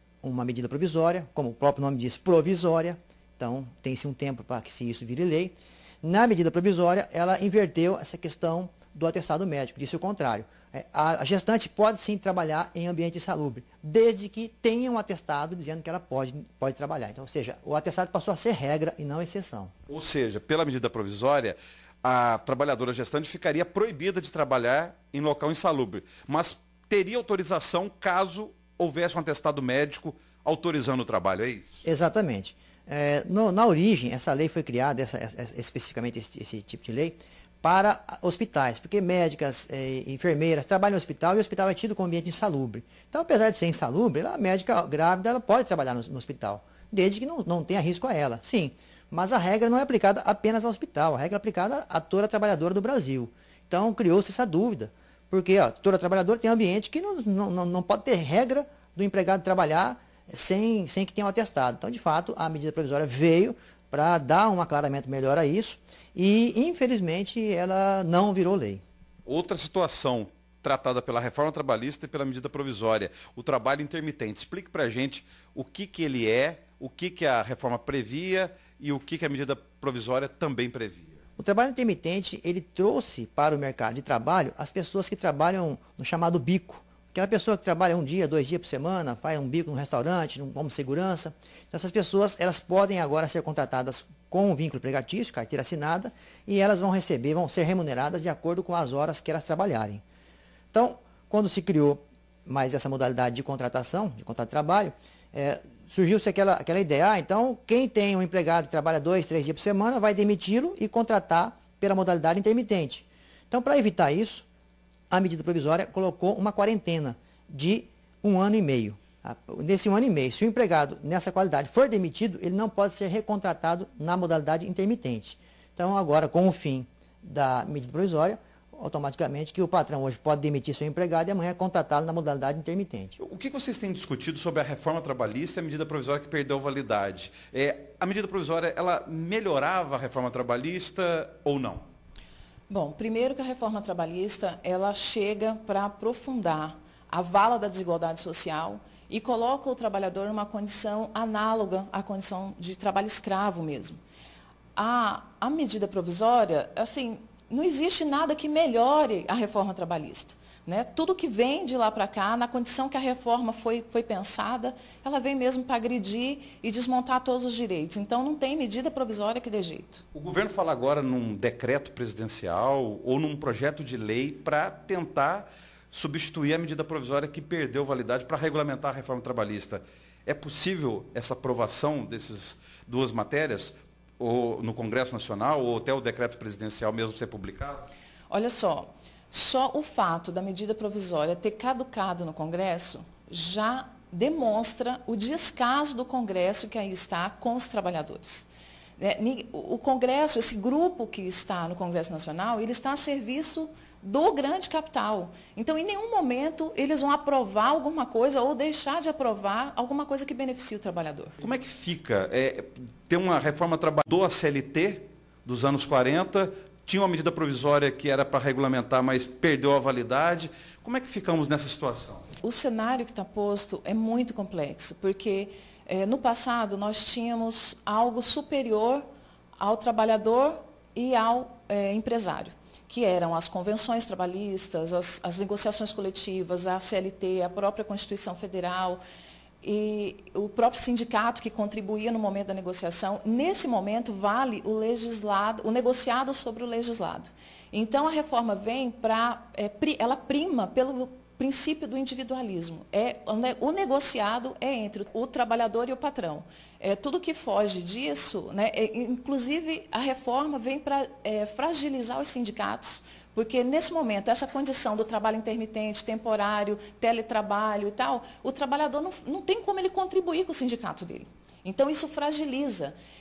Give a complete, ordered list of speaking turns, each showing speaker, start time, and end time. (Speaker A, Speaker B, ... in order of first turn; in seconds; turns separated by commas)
Speaker A: 0.2-19.7, Speaker B: 19.9-31.7, Speaker A: 31.8-68.8, Speaker B: 69.3-81.2, Speaker A: 81.4-100.0, Speaker A: 100.7-114.5, Speaker A: 115.1-133.2, Speaker B: 133.2-141.9, Speaker C: 142.7-154.0, Speaker C: 154.8-170.1, Speaker B: 170.1-187.9, Speaker C: 188.3-211.4, Speaker B: 211.4-222.2, Speaker C: 222.4-229.1, Speaker C: 229.6-239.0, Speaker C: 239.6-273.0